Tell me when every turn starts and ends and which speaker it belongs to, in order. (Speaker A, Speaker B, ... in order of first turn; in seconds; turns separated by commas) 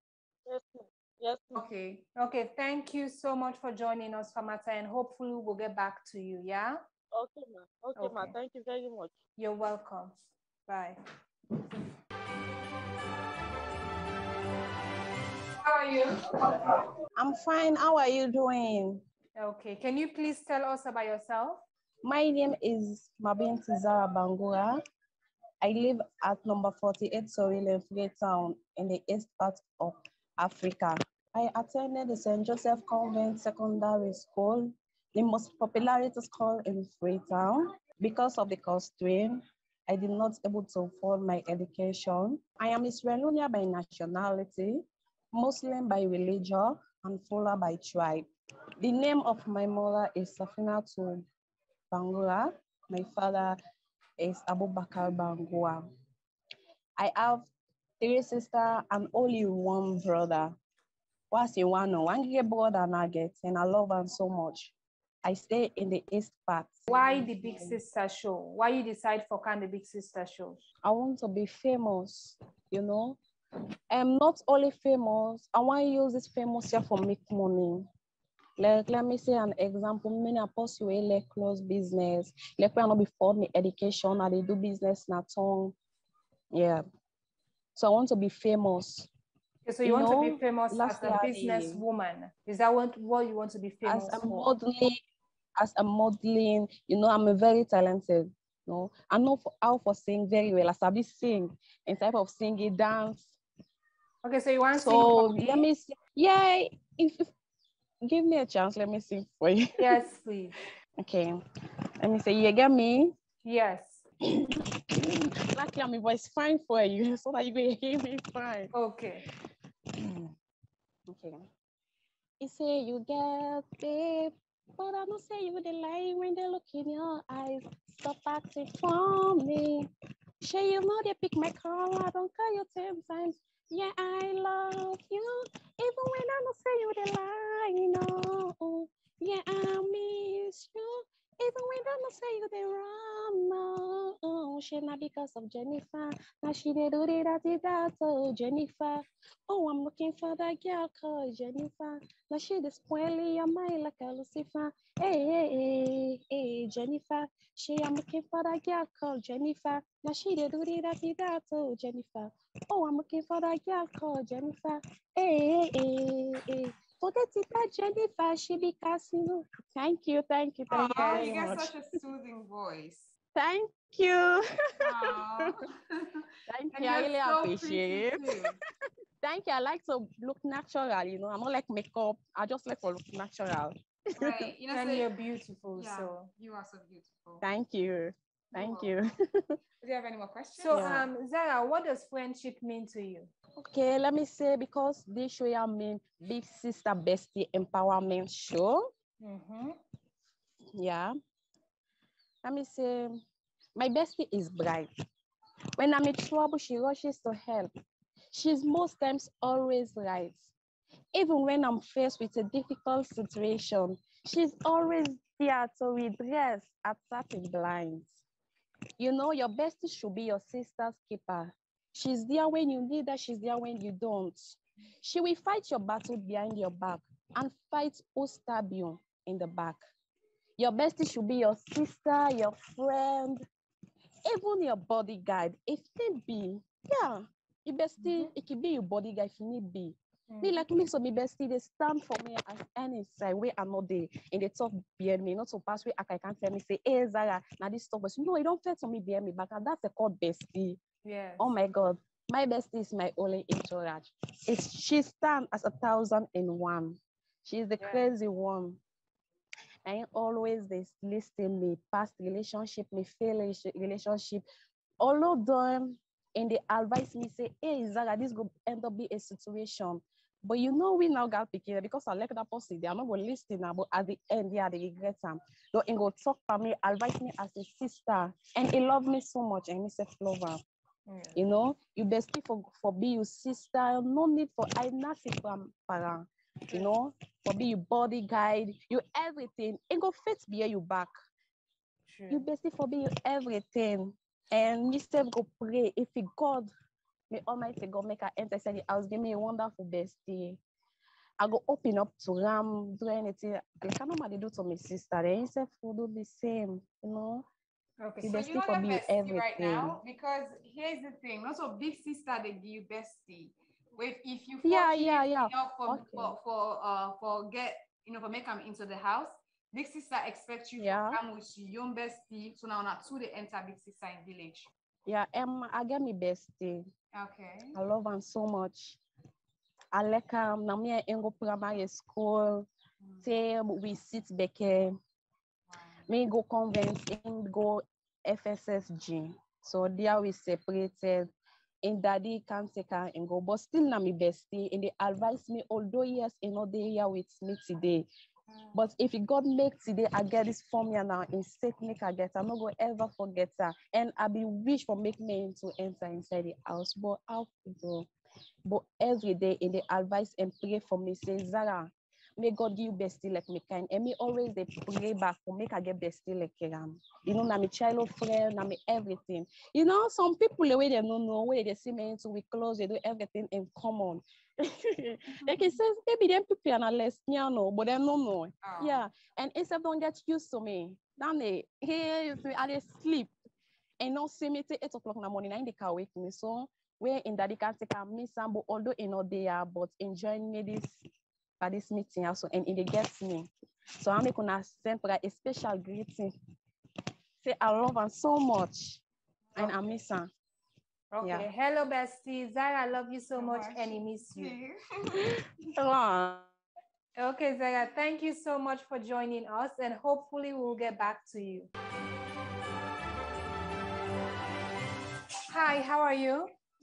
Speaker A: 0.5-1.6, Speaker B: 1.5-2.0, Speaker C: 2.2-6.8, Speaker A: 7.1-9.1, Speaker C: 8.0-8.3, Speaker C: 9.4-10.1, Speaker C: 10.7-11.0, Speaker C: 15.6-16.2, Speaker D: 17.2-19.0, Speaker C: 19.4-21.6, Speaker D: 22.0-24.8, Speaker D: 25.6-48.3, Speaker D: 48.8-51.2, Speaker D: 51.9-53.6, Speaker D: 54.2-55.9, Speaker D: 57.0-57.5, Speaker D: 58.0-60.5, Speaker D: 61.3-67.8, Speaker C: 66.9-70.6, Speaker D: 70.8-73.2, Speaker D: 73.9-77.9, Speaker D: 78.6-85.8, Speaker D: 86.5-86.8, Speaker D: 87.8-89.1, Speaker C: 89.7-94.5, Speaker D: 89.8-91.8, Speaker D: 93.8-95.0, Speaker D: 95.6-103.4, Speaker C: 104.2-105.7, Speaker D: 104.8-107.3, Speaker D: 108.0-110.0, Speaker C: 109.8-110.5, Speaker D: 111.0-111.4, Speaker D: 112.0-113.1, Speaker C: 113.4-114.0, Speaker D: 114.5-118.7, Speaker C: 118.7-119.2, Speaker D: 120.0-120.3, Speaker D: 121.1-121.5, Speaker D: 122.4-129.9, Speaker D: 130.4-171.8, Speaker B: 170.7-173.1, Speaker C: 170.8-171.3, Speaker D: 173.3-175.5, Speaker B: 174.8-178.6, Speaker D: 176.5-178.6, Speaker D: 179.2-184.5, Speaker B: 184.2-185.1, Speaker C: 184.7-186.3, Speaker B: 185.8-187.4, Speaker D: 187.4-189.6, Speaker B: 188.6-188.9, Speaker B: 189.8-191.0, Speaker C: 190.6-193.3, Speaker D: 190.7-191.1, Speaker D: 193.6-198.9, Speaker C: 199.2-199.8, Speaker D: 200.8-201.2, Speaker D: 202.4-203.2, Speaker D: 203.8-204.9, Speaker D: 205.8-207.7, Speaker D: 208.3-210.5, Speaker D: 211.1-218.1, Speaker D: 219.0-229.8, Speaker D: 230.6-233.4, Speaker D: 234.3-250.8, Speaker C: 238.0-238.3, Speaker C: 240.3-240.6, Speaker C: 251.1-251.5, Speaker D: 251.4-258.8, Speaker C: 257.8-258.1, Speaker D: 259.9-264.4, Speaker D: 265.0-280.6, Speaker C: 281.1-281.4, Speaker D: 281.4-291.1, Speaker C: 292.1-292.4, Speaker D: 292.3-296.7, Speaker D: 297.3-300.6, Speaker D: 301.4-307.4, Speaker C: 308.0-308.3, Speaker D: 308.2-310.0, Speaker B: 308.2-324.7, Speaker D: 314.6-316.4, Speaker D: 320.8-321.2, Speaker D: 325.1-326.9, Speaker B: 327.1-327.8, Speaker D: 327.7-329.0, Speaker D: 329.9-332.7, Speaker D: 333.2-335.0, Speaker B: 335.7-336.0, Speaker D: 336.1-341.3, Speaker D: 341.8-348.1, Speaker D: 348.7-358.1, Speaker D: 358.7-383.3, Speaker B: 375.5-375.8, Speaker B: 378.6-379.1, Speaker D: 384.0-391.0, Speaker D: 391.6-396.3, Speaker D: 397.4-399.0, Speaker D: 399.6-400.3, Speaker C: 401.1-404.6, Speaker D: 401.2-401.5, Speaker B: 403.4-405.3, Speaker D: 405.8-406.5, Speaker C: 407.2-411.7, Speaker C: 415.5-416.5